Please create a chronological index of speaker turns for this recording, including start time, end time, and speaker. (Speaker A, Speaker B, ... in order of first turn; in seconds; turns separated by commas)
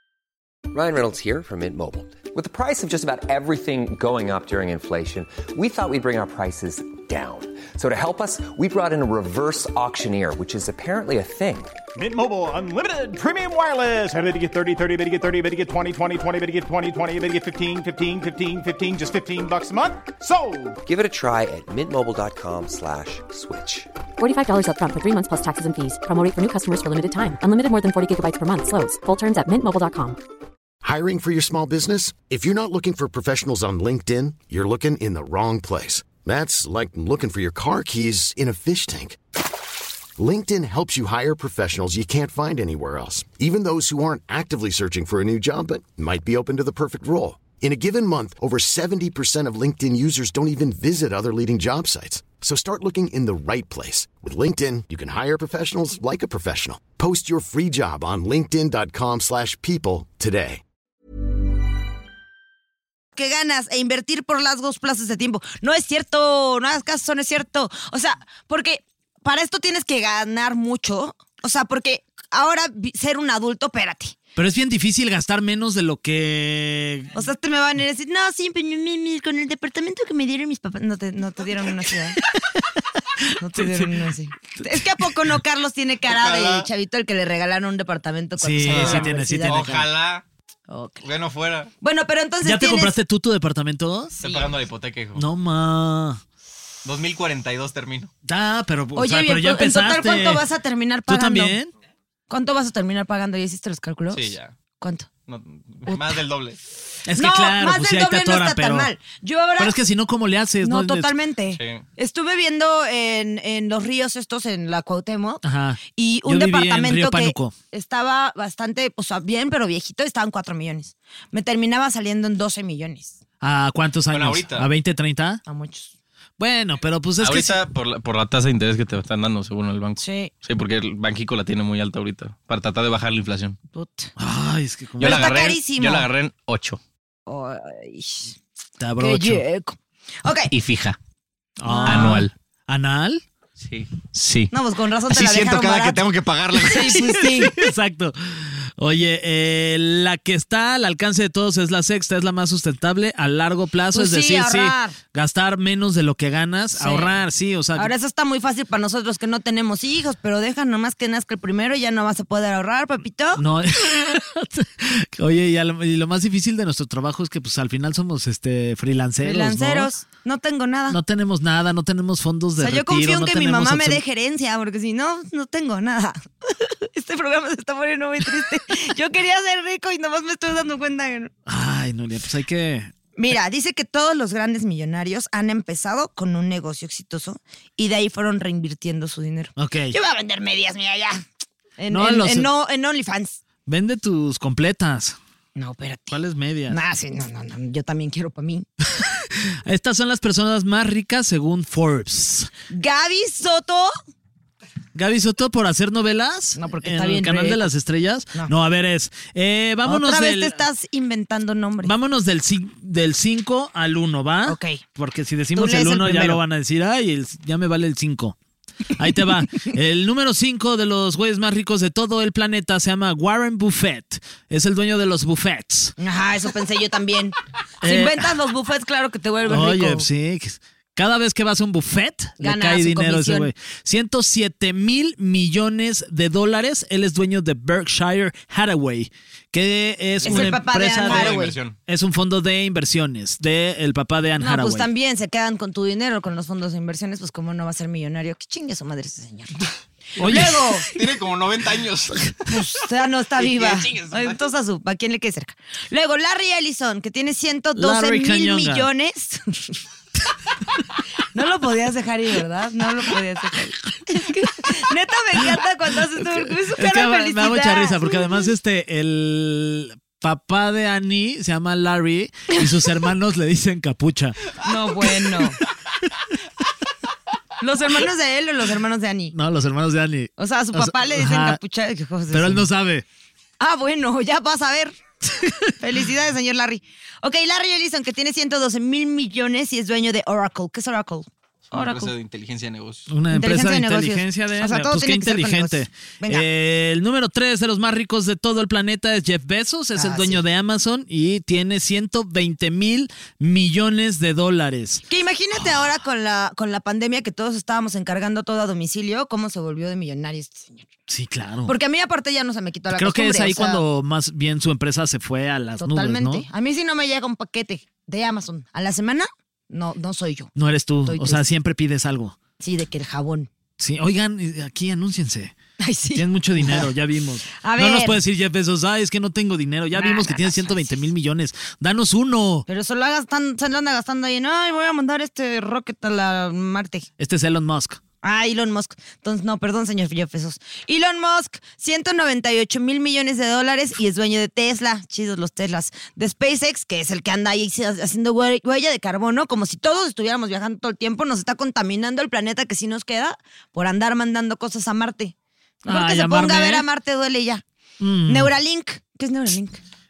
Speaker A: 0.7-11.8, Speaker B: 11.9-20.8, Speaker A: 20.9-23.9, Speaker C: 24.2-30.2, Speaker D: 30.8-39.2, Speaker D: 40.2-60.6, Speaker E: 63.1-74.2, Speaker F: 74.3-77.1, Speaker E: 77.1-82.2, Speaker F: 82.4-82.6, Speaker F: 83.2-85.3, Speaker E: 83.4-89.8, Speaker G: 86.0-86.7, Speaker F: 88.4-89.9, Speaker G: 88.6-90.2, Speaker E: 90.7-91.0, Speaker G: 91.0-91.7, Speaker E: 91.8-93.0, Speaker F: 92.4-94.1, Speaker G: 94.2-95.2, Speaker F: 95.2-96.2, Speaker G: 96.8-98.1, Speaker F: 98.2-100.5, Speaker E: 98.9-101.5, Speaker F: 101.1-101.7, Speaker E: 102.3-105.1, Speaker G: 104.1-104.5, Speaker G: 105.3-106.6, Speaker E: 105.8-106.2, Speaker F: 107.0-108.9, Speaker E: 107.1-109.8, Speaker F: 109.6-111.1, Speaker E: 110.6-123.2, Speaker G: 111.5-111.8, Speaker F: 115.4-117.5, Speaker F: 123.4-125.4, Speaker G: 124.1-124.7, Speaker E: 125.5-125.9, Speaker F: 126.4-127.6, Speaker G: 127.2-133.6, Speaker E: 130.0-130.3, Speaker E: 133.7-134.1, Speaker F: 134.2-135.3, Speaker E: 135.0-136.1, Speaker G: 135.0-136.8, Speaker E: 137.3-138.3, Speaker F: 138.8-139.4, Speaker E: 139.0-140.5, Speaker G: 140.5-141.0, Speaker F: 141.6-143.2, Speaker E: 141.6-142.2, Speaker G: 141.8-142.3, Speaker G: 143.6-144.5, Speaker E: 144.5-147.5, Speaker G: 145.1-147.4, Speaker F: 147.2-157.9, Speaker E: 153.9-154.9, Speaker E: 156.8-157.1, Speaker E: 157.8-163.4, Speaker F: 163.4-169.9, Speaker E: 169.2-171.0, Speaker F: 170.9-174.0, Speaker E: 172.6-181.3, Speaker F: 181.5-182.9, Speaker E: 183.2-191.2, Speaker F: 189.6-189.9, Speaker E: 191.8-193.4, Speaker F: 191.9-192.5, Speaker F: 193.7-195.2, Speaker E: 195.6-198.7, Speaker F: 196.1-196.8, Speaker F: 198.9-202.5, Speaker E: 202.7-203.9, Speaker F: 204.9-210.6, Speaker E: 206.6-207.7, Speaker E: 209.8-211.9, Speaker F: 211.8-218.3, Speaker E: 214.5-214.8, Speaker E: 215.5-216.4, Speaker F: 218.9-225.9, Speaker E: 226.0-230.1, Speaker F: 227.8-228.3, Speaker F: 229.5-244.9, Speaker E: 232.4-233.5, Speaker E: 240.2-241.6, Speaker G: 240.2-241.8, Speaker E: 244.4-249.6, Speaker F: 250.2-250.8, Speaker G: 250.2-252.4, Speaker E: 250.2-250.9, Speaker E: 252.5-259.8, Speaker G: 253.4-254.4, Speaker F: 257.7-258.9, Speaker E: 261.3-268.5, Speaker F: 266.2-274.6, Speaker E: 274.6-275.6, Speaker E: 277.6-279.3, Speaker F: 279.3-281.6, Speaker E: 280.4-282.7, Speaker F: 282.3-283.0, Speaker E: 283.6-284.9, Speaker F: 285.3-285.6, Speaker E: 285.8-292.1, Speaker G: 291.7-293.1, Speaker F: 293.1-305.0, Speaker E: 293.3-296.5, Speaker E: 299.9-300.4, Speaker E: 305.1-310.9, Speaker F: 311.1-311.7, Speaker E: 311.6-313.8, Speaker F: 312.9-316.5, Speaker E: 315.8-320.5, Speaker F: 320.6-322.4, Speaker E: 321.1-321.4, Speaker E: 322.6-323.5, Speaker F: 323.8-325.5, Speaker E: 325.8-326.9, Speaker F: 326.1-332.6, Speaker E: 327.6-328.2, Speaker E: 329.9-331.0, Speaker E: 332.7-337.1, Speaker F: 337.2-338.0, Speaker E: 338.2-357.6, Speaker F: 355.9-356.9, Speaker F: 358.0-358.5, Speaker E: 358.2-359.8